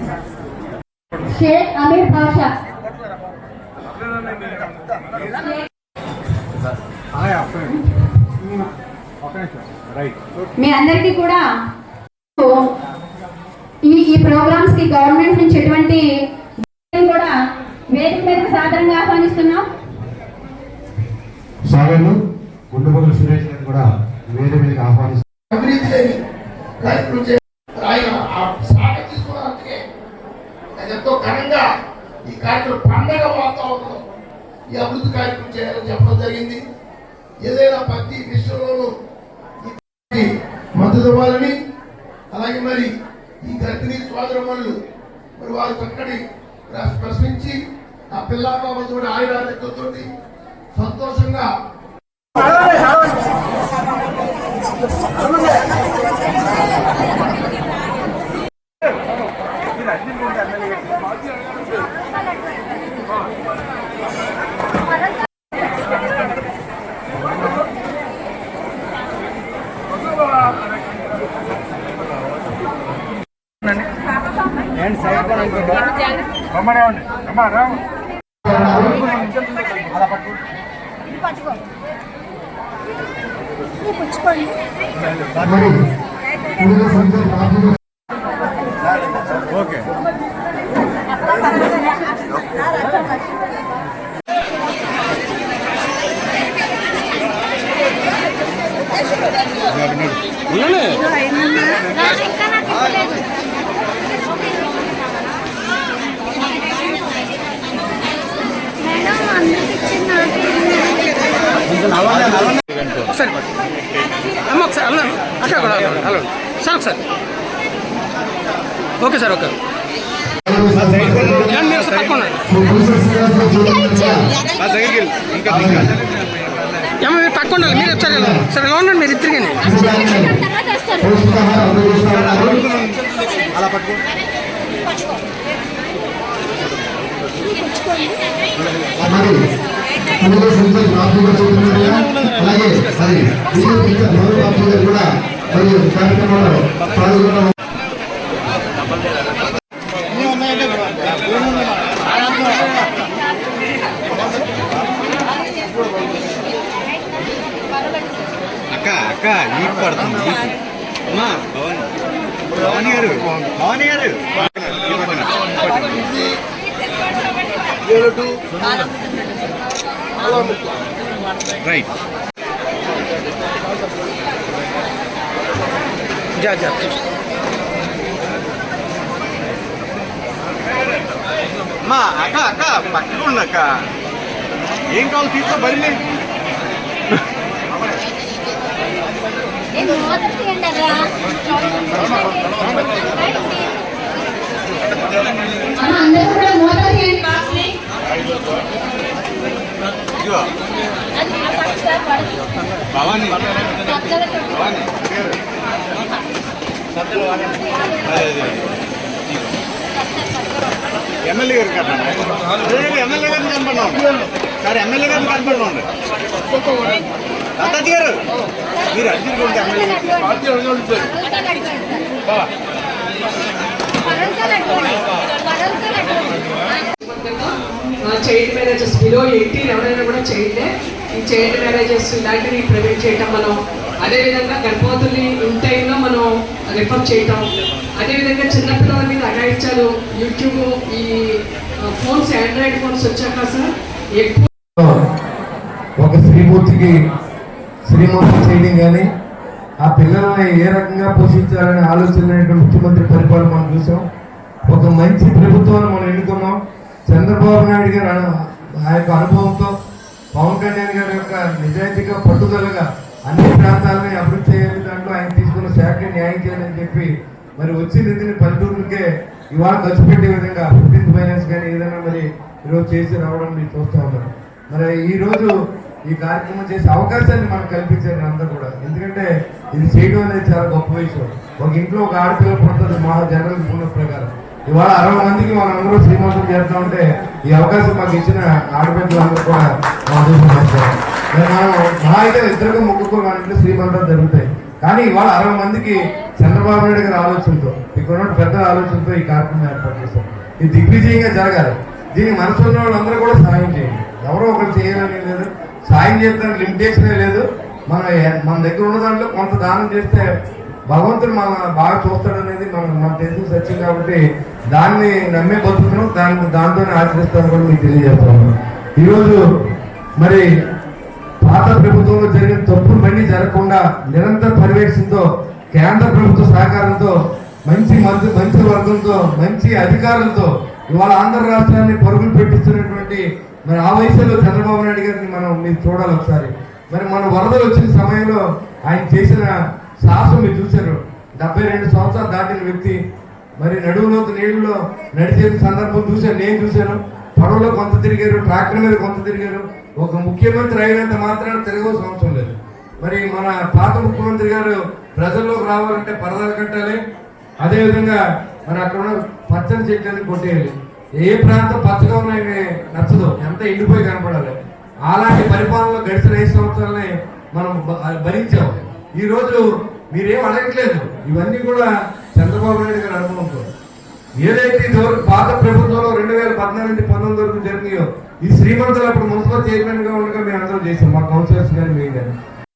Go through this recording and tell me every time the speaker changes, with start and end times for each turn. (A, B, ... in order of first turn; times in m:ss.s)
0:01.3-0:02.5 A
0:05.3-0:05.7 A
0:10.6-0:11.5 A
0:12.4-0:12.7 A
0:13.8-0:16.1 A
0:16.8-0:17.3 A
0:17.9-0:19.6 A
0:21.6-0:22.2 B
0:22.7-0:25.2 B
0:25.5-0:26.2 C
0:26.8-0:29.8 C
0:30.8-0:31.6 C
0:32.2-0:34.0 C
0:34.7-0:36.6 C
0:37.4-0:38.9 C
0:39.6-0:41.5 C
0:42.3-0:42.9 C
0:43.4-0:44.8 C
0:45.4-0:46.2 C
0:46.7-0:47.6 C
0:48.1-0:50.1 C
0:50.7-0:51.5 C
1:18.4-1:18.9 B
1:25.4-1:25.8 B
1:26.6-1:27.7 B
1:54.7-1:55.0 D
1:56.7-1:56.9 D
1:59.0-1:59.5 D
2:00.5-2:01.6 B
2:02.5-2:04.2 B
2:05.5-2:05.9 B
2:07.1-2:07.6 D
2:07.7-2:08.4 B
2:08.6-2:09.5 D
2:09.6-2:10.4 B
2:11.0-2:12.6 B
2:19.0-2:19.4 B
2:20.2-2:27.5 B
2:38.7-2:40.4 E
2:41.1-2:41.8 E
2:42.5-2:45.3 E
2:45.8-2:46.2 C
2:50.2-2:50.7 C
3:01.8-3:03.7 E
3:04.9-3:06.0 E
3:09.8-3:11.0 A
3:15.8-3:17.7 A
3:23.0-3:23.4 E
3:24.5-3:25.1 E
3:28.1-3:28.6 E
3:31.2-3:32.1 E
3:32.6-3:34.0 E
3:34.6-3:35.8 E
3:37.6-3:38.2 E
3:38.9-3:40.0 E
3:47.0-3:47.5 F
3:48.0-4:04.5 F
4:06.0-4:06.9 G
4:07.8-4:09.0 G
4:09.8-4:14.0 G
4:14.6-4:19.7 G
4:20.3-4:35.5 G
4:36.0-5:10.3 G
5:10.9-5:14.2 G
5:14.7-5:19.4 G
5:20.2-5:20.4 G
5:21.4-5:27.1 G
5:27.6-5:43.0 G
5:43.6-5:57.0 G
5:57.6-6:13.7 G
6:14.4-6:22.3 G